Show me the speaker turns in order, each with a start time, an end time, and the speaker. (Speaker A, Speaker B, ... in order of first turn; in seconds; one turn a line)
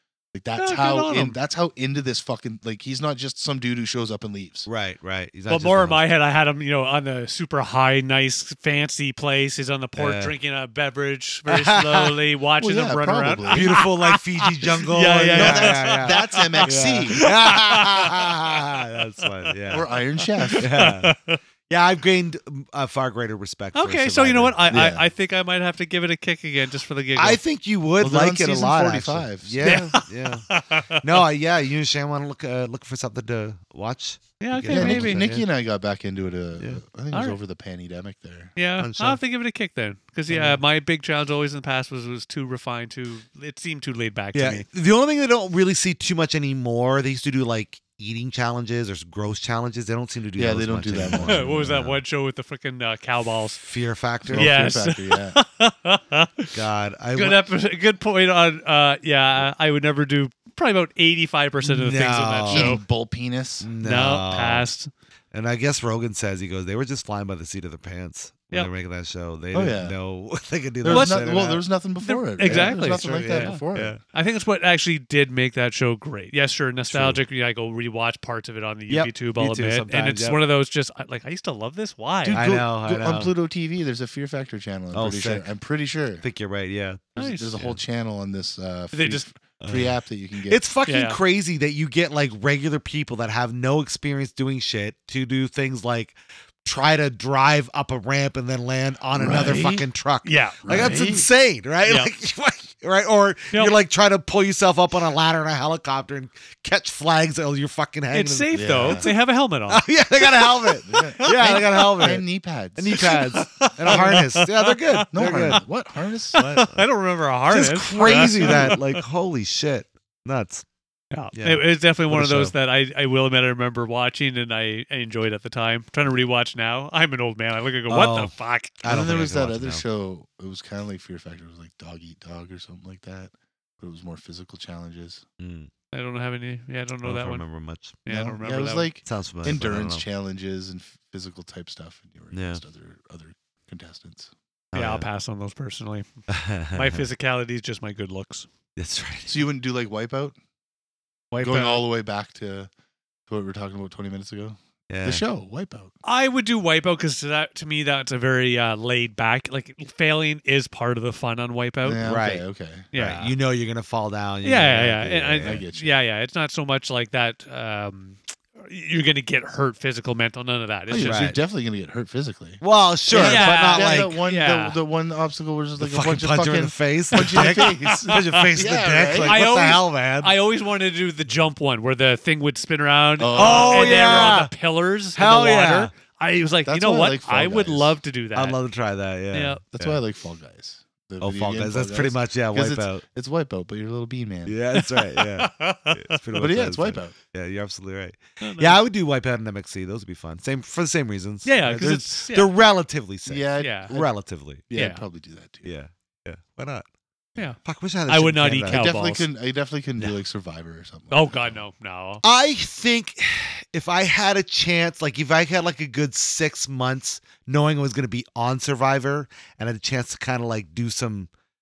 Speaker A: 0.3-4.7
Speaker B: 0.6-1.4
Speaker C: 4.7-6.0
Speaker B: 5.5-18.7
Speaker C: 10.0-10.3
Speaker C: 11.5-12.2
Speaker A: 12.6-13.8
Speaker C: 13.5-19.9
Speaker A: 15.3-17.3
Speaker B: 19.2-19.5
Speaker A: 19.7-20.6
Speaker B: 20.4-21.4
Speaker C: 20.6-21.1
Speaker C: 21.7-24.8
Speaker B: 23.7-27.4
Speaker A: 24.7-25.1
Speaker C: 27.1-35.5
Speaker A: 28.0-29.8
Speaker B: 29.6-31.2
Speaker B: 34.4-35.2
Speaker A: 34.7-38.5
Speaker B: 37.1-37.4
Speaker B: 38.6-44.6
Speaker C: 38.8-39.2
Speaker C: 44.3-52.0
Speaker A: 50.3-51.6
Speaker B: 51.2-53.6
Speaker C: 53.6-54.8
Speaker A: 54.2-55.4
Speaker B: 54.3-56.6
Speaker C: 56.5-57.4
Speaker B: 57.1-62.8
Speaker C: 61.6-62.8
Speaker A: 62.5-63.7
Speaker C: 63.6-64.7
Speaker B: 63.8-64.9
Speaker C: 65.3-71.6
Speaker A: 69.5-70.0
Speaker A: 70.8-73.9
Speaker B: 70.9-71.2
Speaker B: 72.0-82.4
Speaker C: 72.4-74.0
Speaker C: 76.9-77.2
Speaker C: 78.9-80.4
Speaker A: 82.2-86.2
Speaker C: 82.3-83.3
Speaker C: 84.9-85.5
Speaker C: 86.2-87.8
Speaker A: 87.2-90.6
Speaker B: 87.2-87.6
Speaker B: 88.9-89.2
Speaker C: 89.6-89.9
Speaker C: 90.5-109.1
Speaker B: 90.9-91.2
Speaker A: 99.1-99.8
Speaker B: 100.2-101.2
Speaker A: 100.6-101.2
Speaker B: 101.8-102.1
Speaker B: 108.1-109.9
Speaker A: 108.5-109.1
Speaker C: 109.7-112.2
Speaker B: 110.6-111.3
Speaker A: 110.8-113.2
Speaker C: 112.8-115.6
Speaker B: 112.9-115.6
Speaker A: 115.1-116.7
Speaker B: 116.3-119.0
Speaker C: 117.5-120.7
Speaker A: 117.9-118.7
Speaker B: 121.1-128.8
Speaker C: 121.3-122.5
Speaker C: 127.9-129.8
Speaker A: 128.8-135.2
Speaker C: 135.4-135.7
Speaker B: 135.9-137.4
Speaker C: 137.0-138.0
Speaker B: 138.0-138.9
Speaker A: 138.1-144.3
Speaker C: 139.0-140.0
Speaker C: 142.3-142.6
Speaker C: 144.7-145.1
Speaker B: 144.7-146.1
Speaker C: 146.3-147.0
Speaker B: 146.7-148.5
Speaker C: 148.8-149.4
Speaker A: 149.3-150.3
Speaker B: 151.3-151.8
Speaker A: 151.4-152.7
Speaker A: 153.3-155.9
Speaker C: 154.9-155.2
Speaker B: 156.0-162.0
Speaker A: 161.8-162.9
Speaker C: 162.0-165.6
Speaker B: 162.9-163.3
Speaker B: 164.4-171.3
Speaker A: 165.4-166.0
Speaker A: 170.9-179.4
Speaker C: 171.0-171.4
Speaker C: 172.6-174.2
Speaker B: 173.1-174.8
Speaker C: 175.8-180.3
Speaker B: 177.1-178.5
Speaker B: 179.2-188.6
Speaker A: 183.2-184.4
Speaker C: 183.3-184.5
Speaker C: 185.1-185.9
Speaker A: 186.7-187.9
Speaker C: 188.3-190.0
Speaker B: 189.3-189.6
Speaker A: 189.7-194.6
Speaker C: 191.2-193.0
Speaker C: 194.4-204.6
Speaker B: 194.7-196.2
Speaker A: 196.3-197.2
Speaker B: 198.4-198.8
Speaker B: 201.4-202.5
Speaker A: 203.2-204.1
Speaker B: 203.6-203.9
Speaker A: 204.7-205.7
Speaker B: 204.7-205.0
Speaker C: 205.6-206.9
Speaker B: 207.3-209.2
Speaker C: 207.6-208.9
Speaker A: 208.7-211.4
Speaker B: 211.1-212.2
Speaker C: 212.2-221.3